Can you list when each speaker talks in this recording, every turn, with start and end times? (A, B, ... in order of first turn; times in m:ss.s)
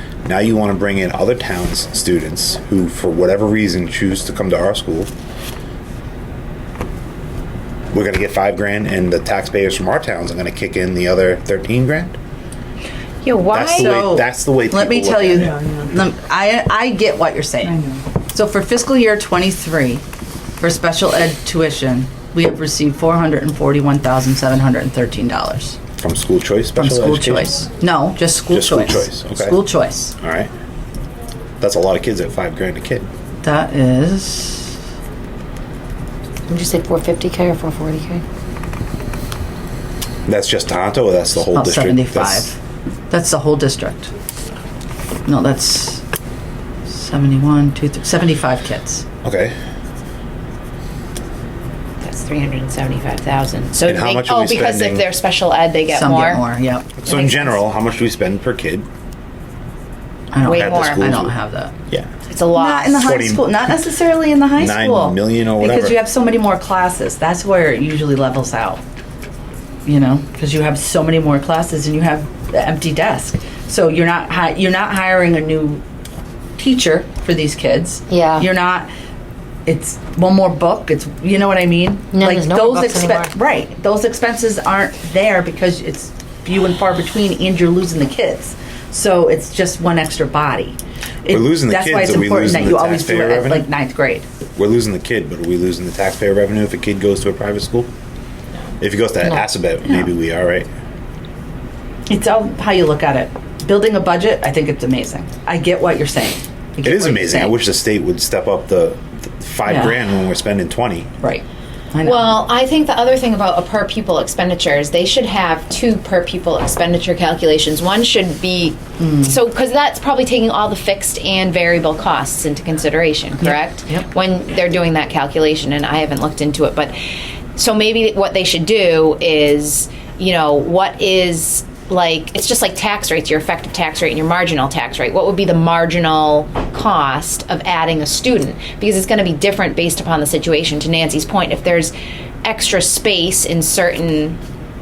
0:00.2-0:05.1 A
0:07.9-0:12.2 A
0:13.2-0:14.0 B
0:13.5-0:15.6 A
0:13.7-0:20.0 C
0:20.6-0:25.8 C
0:26.0-0:27.7 A
0:26.8-0:30.1 C
0:28.5-0:29.6 A
0:30.2-0:30.5 A
0:31.6-0:33.1 A
0:33.4-0:34.7 C
0:36.5-0:38.2 D
0:40.2-0:42.5 A
0:41.4-0:42.6 C
0:43.1-0:44.1 C
0:45.2-0:46.0 C
0:46.9-0:49.0 C
0:49.2-0:49.5 A
0:52.0-0:56.4 B
0:53.8-0:55.0 A
0:55.9-0:57.0 C
0:57.0-0:58.9 A
0:57.0-0:57.4 B
1:00.3-1:01.7 C
1:00.4-1:01.2 B
1:00.5-1:01.3 A
1:02.3-1:03.2 B
1:02.5-1:08.8 C
1:03.0-1:03.6 A
1:04.5-1:06.0 A
1:09.8-1:15.8 C
1:16.6-1:18.9 C
1:18.1-1:18.5 D
1:19.6-1:34.2 C
1:22.1-1:23.3 D
1:31.3-1:33.7 A
1:34.6-1:37.9 A
1:38.8-1:40.7 A
1:42.1-1:47.5 C
1:46.8-1:51.1 A
1:49.6-1:50.0 C
1:51.2-1:52.4 C
1:52.0-2:07.0 B
1:59.0-1:59.3 C
2:03.4-2:04.0 C
2:07.6-2:21.9 B
2:22.4-2:24.4 B